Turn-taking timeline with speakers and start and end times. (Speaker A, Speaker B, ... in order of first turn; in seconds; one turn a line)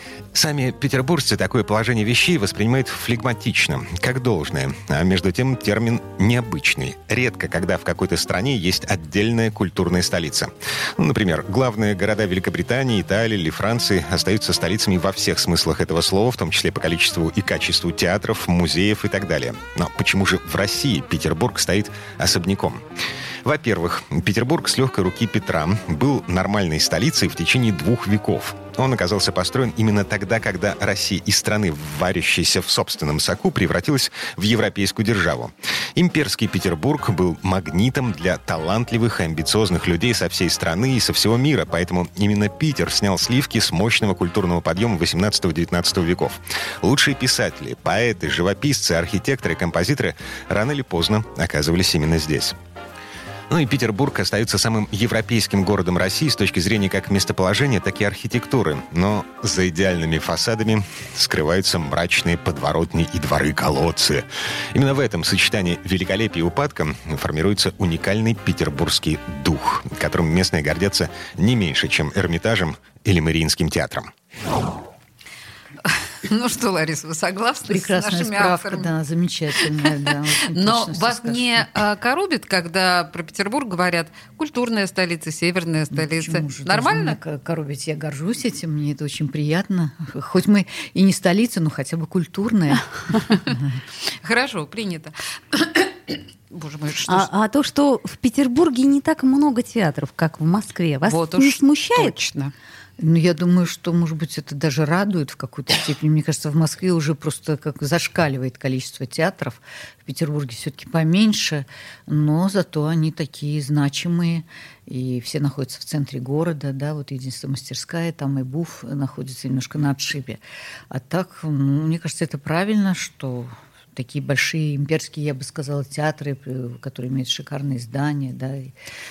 Speaker A: 0.3-22.8
Speaker A: 23.4-52.5
Speaker A: 53.5-74.1
Speaker B: 75.8-78.9
Speaker C: 77.7-81.7
Speaker B: 80.5-87.2
Speaker C: 85.9-93.3
Speaker B: 94.2-97.3
Speaker D: 97.0-102.2
Speaker B: 101.0-102.5
Speaker C: 103.0-128.7